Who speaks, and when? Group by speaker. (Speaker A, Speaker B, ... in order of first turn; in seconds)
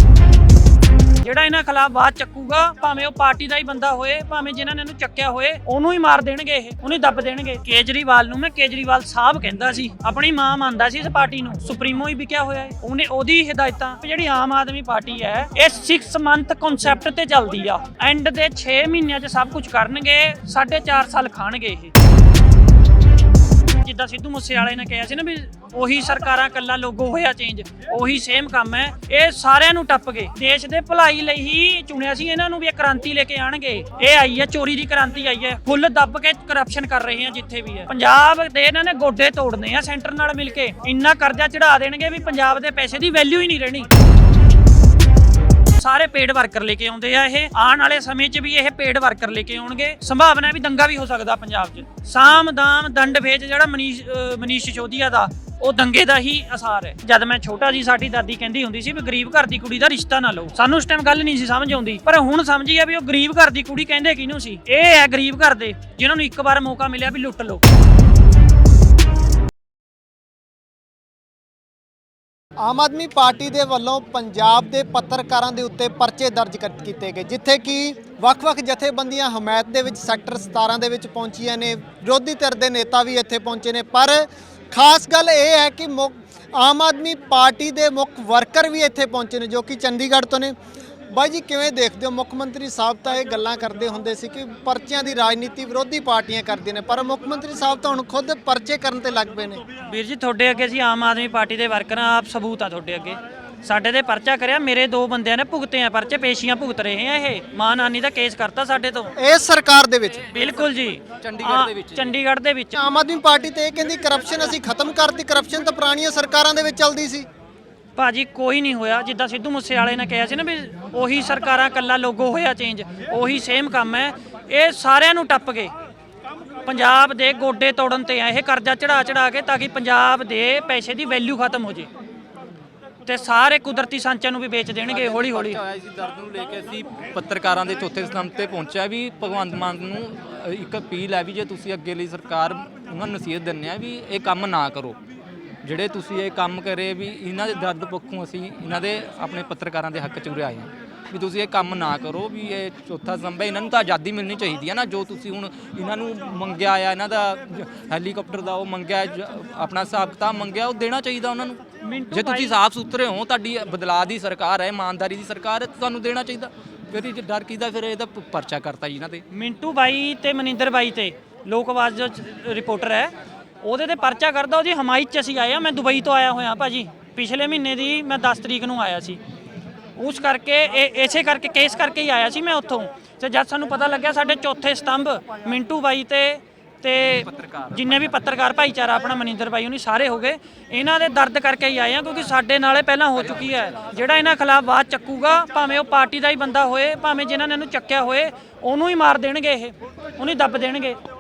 Speaker A: 1.2-21.9, 23.8-43.9, 45.8-67.6, 99.8-109.2, 110.3-112.8, 118.0-125.7, 126.7-131.9, 133.1-135.6, 161.8-162.6, 169.3-179.2, 180.0-201.0
Speaker B: 72.6-90.5, 91.1-99.6, 109.2-110.3, 112.8-117.3
Speaker C: 111.2-112.1, 134.9-145.0, 145.6-169.2, 187.3-188.1, 193.2-193.8